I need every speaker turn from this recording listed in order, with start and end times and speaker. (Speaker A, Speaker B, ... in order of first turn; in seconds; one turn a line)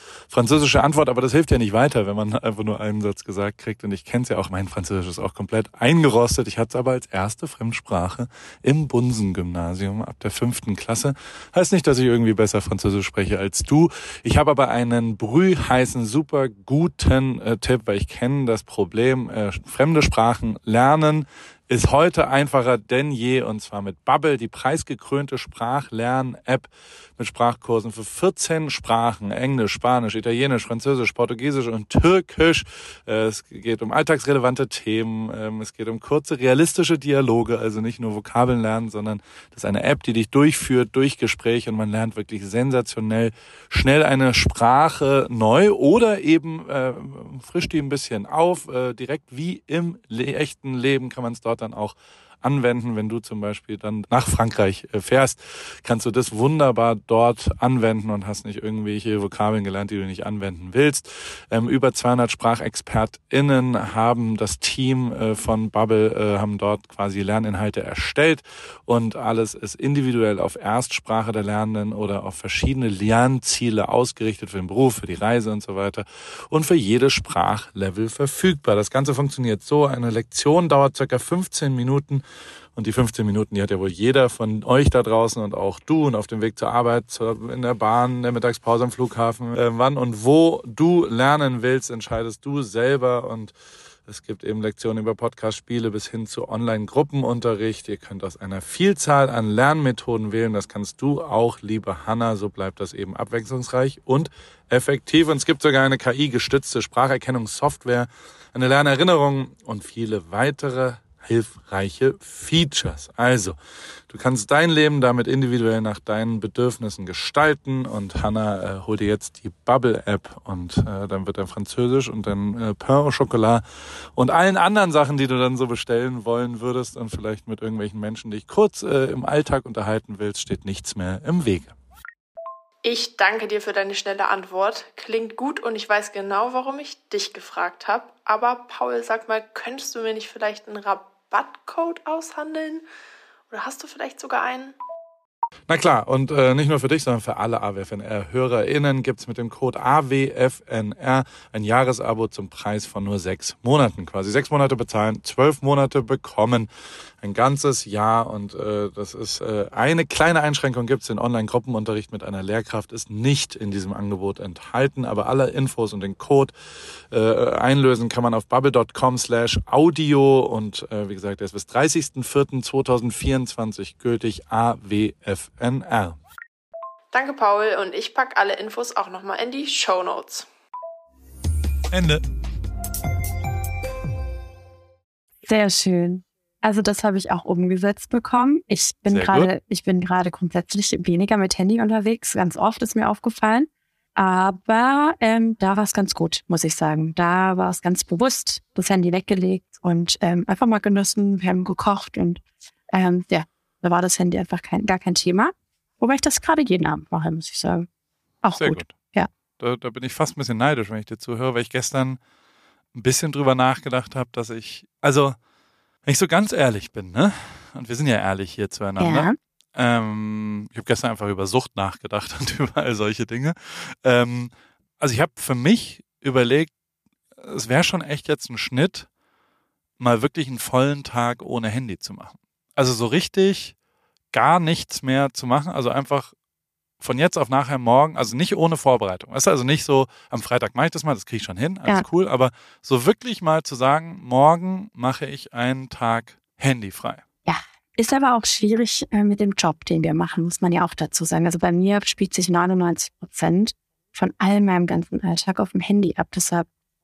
Speaker A: 0.3-82.2
Speaker A: 82.7-93.5
Speaker A: 94.1-113.6
Speaker A: 114.1-123.6
Speaker A: 124.1-131.7
Speaker B: 132.8-142.8
Speaker B: 143.5-144.7
Speaker A: 145.7-156.7
Speaker A: 157.2-166.5
Speaker A: 167.1-176.2
Speaker B: 177.1-180.5
Speaker A: 181.9-182.2
Speaker C: 185.4-207.9
Speaker A: 189.1-189.5
Speaker C: 208.4-209.3
Speaker A: 208.5-208.9
Speaker A: 209.6-212.2
Speaker A: 212.9-215.4
Speaker A: 216.0-226.7
Speaker C: 219.0-219.3
Speaker A: 227.4-229.1
Speaker A: 230.0-233.7
Speaker A: 234.3-236.3
Speaker A: 237.0-247.2
Speaker C: 247.4-256.7